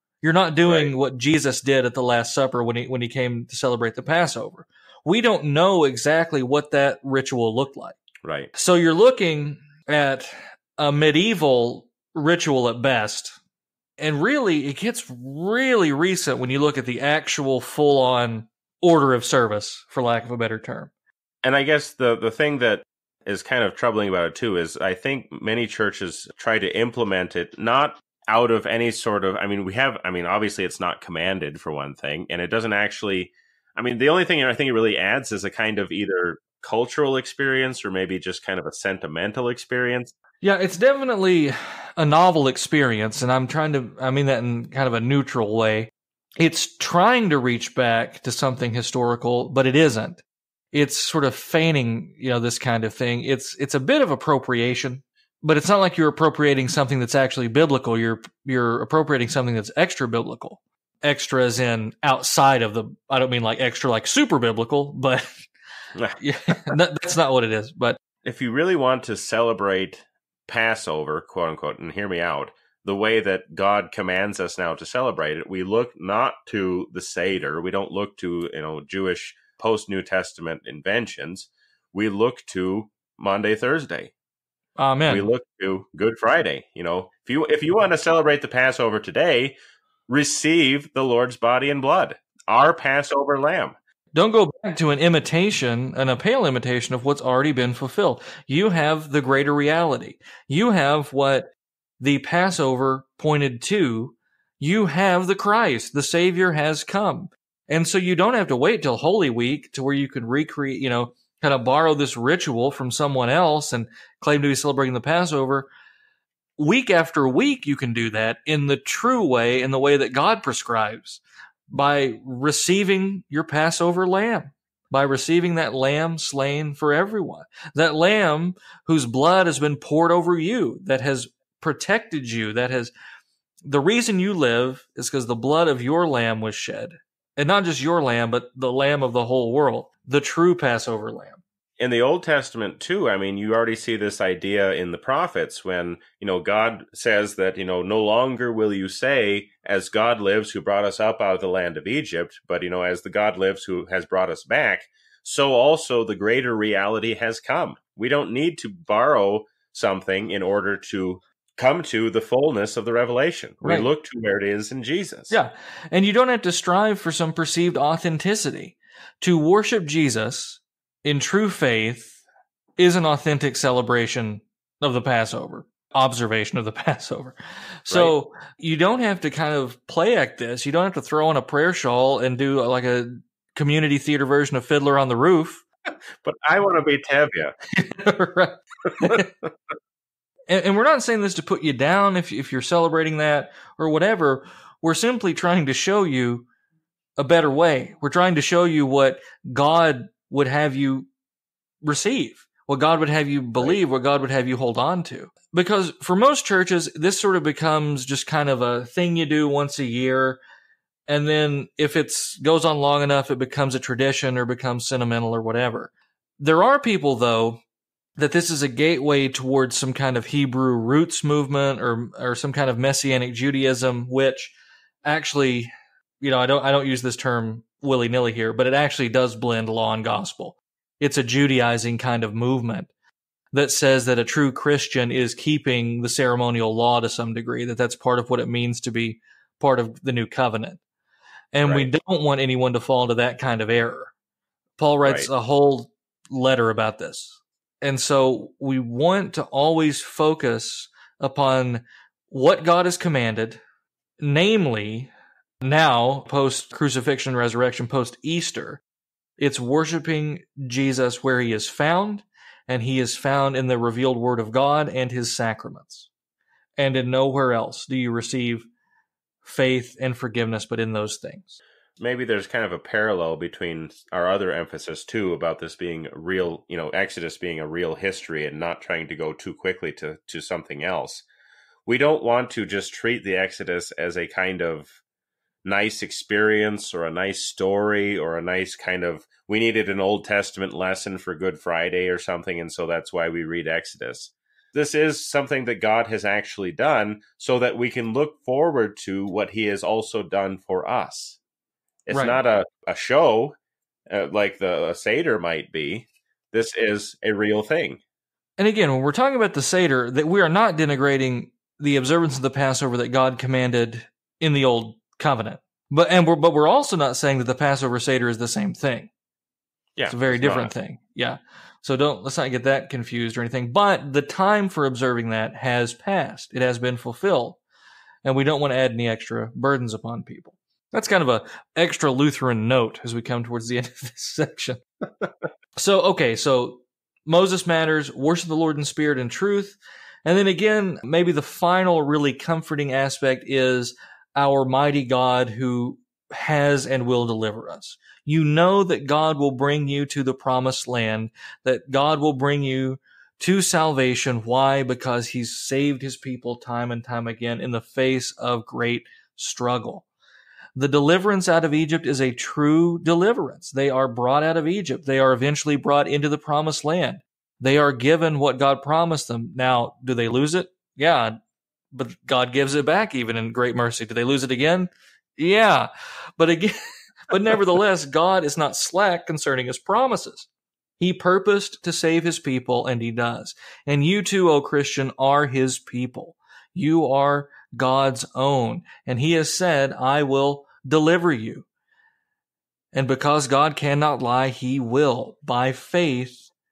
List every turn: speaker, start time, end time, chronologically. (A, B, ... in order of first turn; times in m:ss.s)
0:00.2-0:08.0 A
0:00.7-0:00.9 B
0:08.2-0:08.5 B
0:08.5-0:13.4 A
0:14.0-0:20.9 A
0:21.4-0:40.1 B
0:40.4-1:05.5 A
1:06.2-1:08.0 A
1:08.2-1:24.1 B
1:24.8-1:25.3 A
1:25.1-1:29.5 B
1:30.1-1:33.8 B
1:34.2-1:55.7 A
1:56.6-2:12.9 A
2:13.6-2:21.4 A
2:21.8-2:45.4 B
2:43.6-2:43.9 A
2:45.3-2:52.2 A
2:52.8-3:05.6 A
3:06.2-3:07.5 B
3:07.8-3:09.3 A
3:10.5-3:16.5 A
3:17.2-3:21.1 A
3:21.8-3:30.4 A
3:31.1-3:37.6 A
3:38.2-3:45.7 A
3:46.2-3:52.9 A
3:53.5-4:00.8 A
4:01.5-4:04.1 A
4:01.6-4:01.9 B
4:04.8-4:13.6 A
4:05.0-4:05.3 B
4:14.2-4:18.8 A
4:19.4-4:26.1 A
4:26.8-4:28.7 A
4:29.4-4:31.6 A
4:32.0-4:41.2 B
4:41.9-4:44.9 B
4:45.6-5:01.4 B
5:02.1-5:03.6 B
5:02.1-5:02.4 A
5:04.1-5:08.0 B
5:08.6-5:19.1 A
5:20.0-5:20.7 B
5:20.1-5:27.6 A
5:28.2-5:34.8 A
5:35.8-6:00.0 A
6:00.8-6:11.4 A
6:11.9-6:16.8 A
6:17.3-6:20.5 A
6:21.0-6:31.7 A
6:32.9-6:36.5 A